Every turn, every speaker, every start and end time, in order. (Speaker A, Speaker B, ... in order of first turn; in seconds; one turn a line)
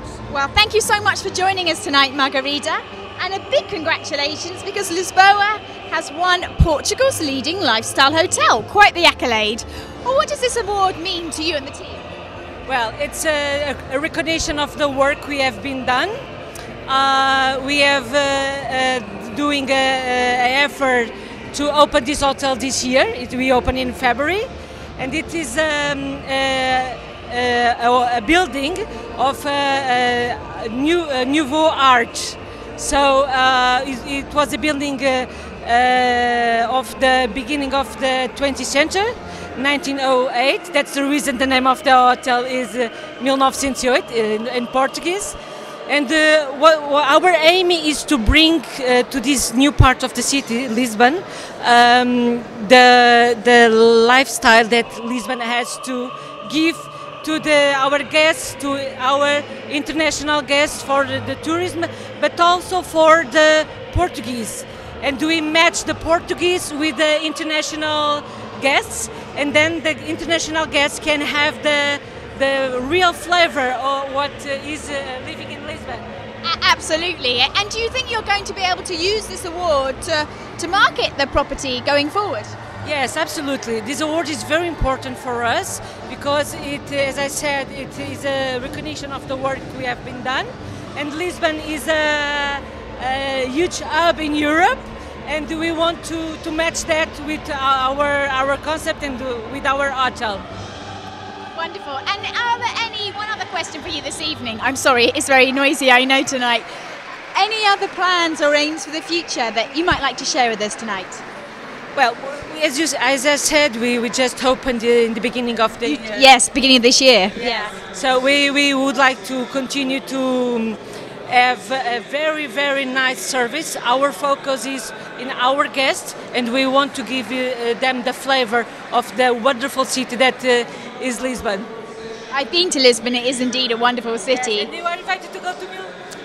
Speaker A: 0.3-12.0
Speaker B: 12.7-16.2
Speaker B: 16.9-45.4
Speaker B: 45.9-76.1
Speaker A: 76.4-82.5
Speaker B: 82.8-100.5
Speaker A: 101.5-106.7
Speaker A: 107.3-111.2
Speaker B: 112.0-116.3
Speaker A: 115.8-117.7
Speaker B: 117.3-131.7
Speaker A: 132.3-134.7
Speaker B: 134.3-135.9